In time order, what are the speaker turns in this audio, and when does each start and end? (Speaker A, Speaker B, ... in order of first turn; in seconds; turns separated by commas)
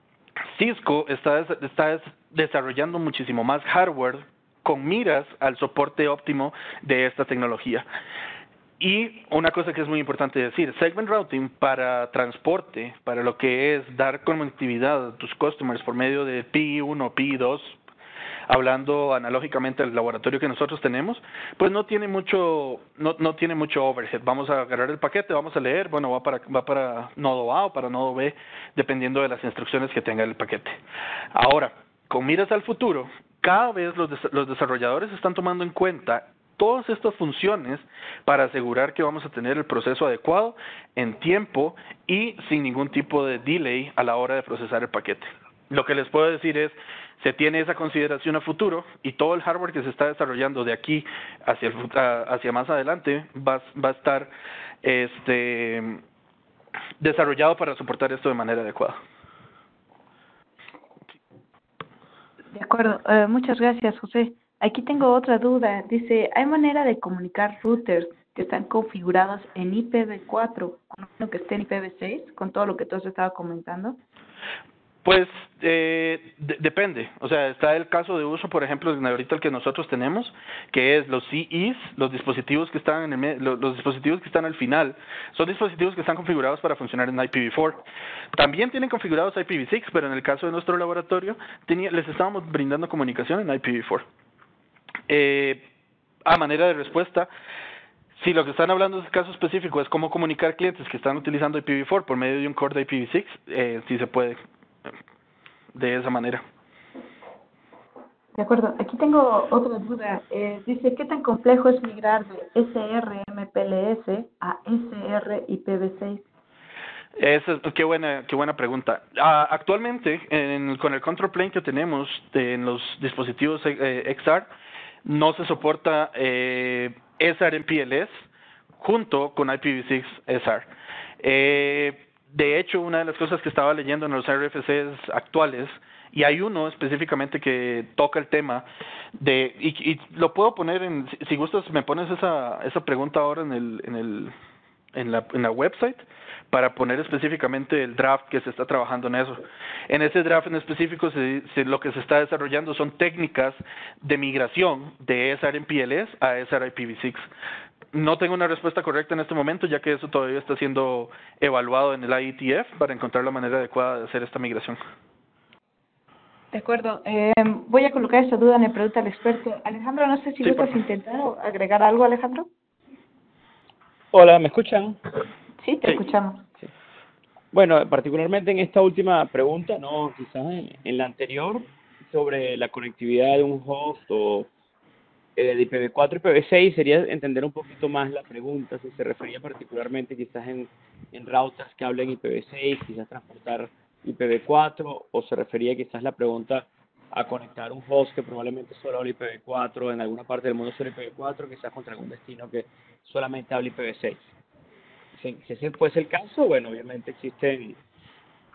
Speaker A: 0.5-7.9, Speaker A: 8.8-17.8, Speaker A: 18.5-30.8, Speaker A: 31.3-54.3, Speaker A: 54.8-56.0, Speaker A: 57.0-59.0, Speaker B: 62.5-74.0, Speaker A: 75.0-87.8, Speaker A: 88.3-94.1, Speaker A: 95.1-95.7, Speaker A: 96.3-97.3, Speaker A: 98.2-104.9, Speaker A: 105.8-106.4, Speaker B: 108.4-116.3, Speaker A: 117.2-124.5, Speaker A: 125.0-128.3, Speaker A: 128.8-130.7, Speaker A: 131.2-144.3, Speaker A: 144.9-157.3, Speaker A: 157.9-164.8, Speaker B: 166.5-172.5, Speaker A: 170.4-170.7, Speaker C: 174.1-175.0, Speaker B: 175.6-176.4, Speaker C: 177.5-184.5, Speaker C: 185.4-204.3, Speaker C: 205.2-207.8